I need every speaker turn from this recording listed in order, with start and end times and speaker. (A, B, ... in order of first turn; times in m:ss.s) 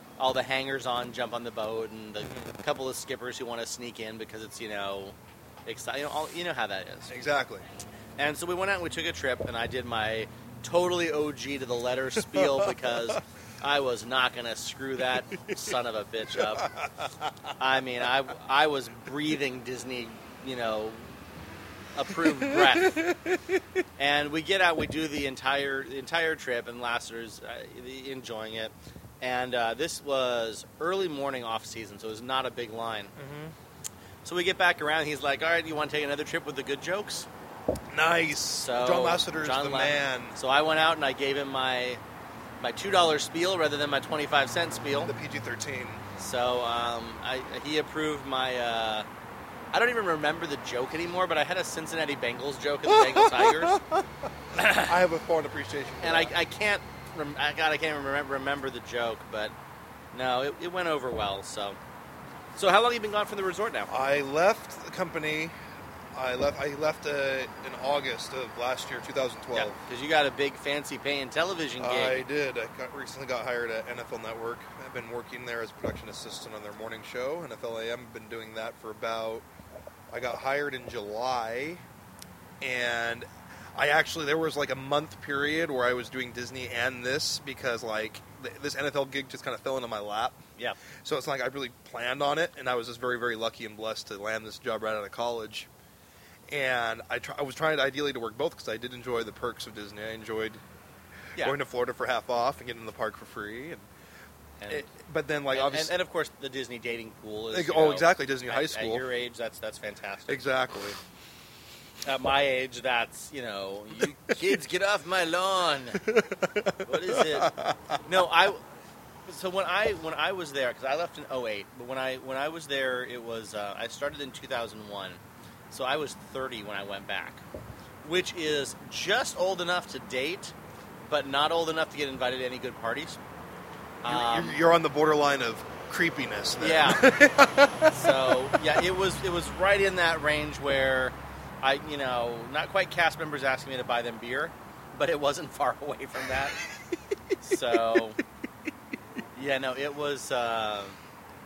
0:00.2-0:07.2 A
0:02.2-0:02.5 B
0:07.1-0:07.6 B
0:08.2-0:16.7 A
0:12.2-0:13.2 B
0:16.3-0:17.3 B
0:17.6-0:21.1 A
0:22.0-0:23.1 A
0:22.3-0:23.6 B
0:24.0-0:33.2 A
0:33.2-0:33.5 B
0:34.2-0:37.3 A
0:37.9-0:40.4 B
0:38.6-0:42.0 A
0:42.6-0:45.1 A
0:45.0-0:46.0 B
0:46.2-0:49.1 A
0:49.7-0:53.8 A
0:52.9-0:56.3 B
0:54.5-0:54.9 A
0:56.0-0:59.5 A
1:00.1-1:01.8 A
1:02.6-1:03.9 A
1:03.9-1:05.6 B
1:06.1-1:09.8 B
1:09.5-1:12.3 A
1:11.8-1:19.5 B
1:20.1-1:21.8 B
1:22.6-1:30.4 B
1:31.0-1:35.7 B
1:36.5-1:40.6 B
1:41.4-1:43.9 B
1:44.6-1:44.9 A
1:44.7-1:45.9 B
1:45.5-1:50.4 A
1:47.5-1:49.0 B
1:50.3-1:51.0 B
1:52.1-1:56.1 A
1:56.0-1:58.0 B
1:56.8-1:58.6 A
1:59.3-2:07.4 A
2:08.0-2:10.6 A
2:11.1-2:13.2 A
2:14.0-2:14.6 A
2:14.0-2:18.6 B
2:16.6-2:17.2 A
2:17.9-2:26.6 A
2:27.4-2:28.2 A
2:29.4-2:31.0 A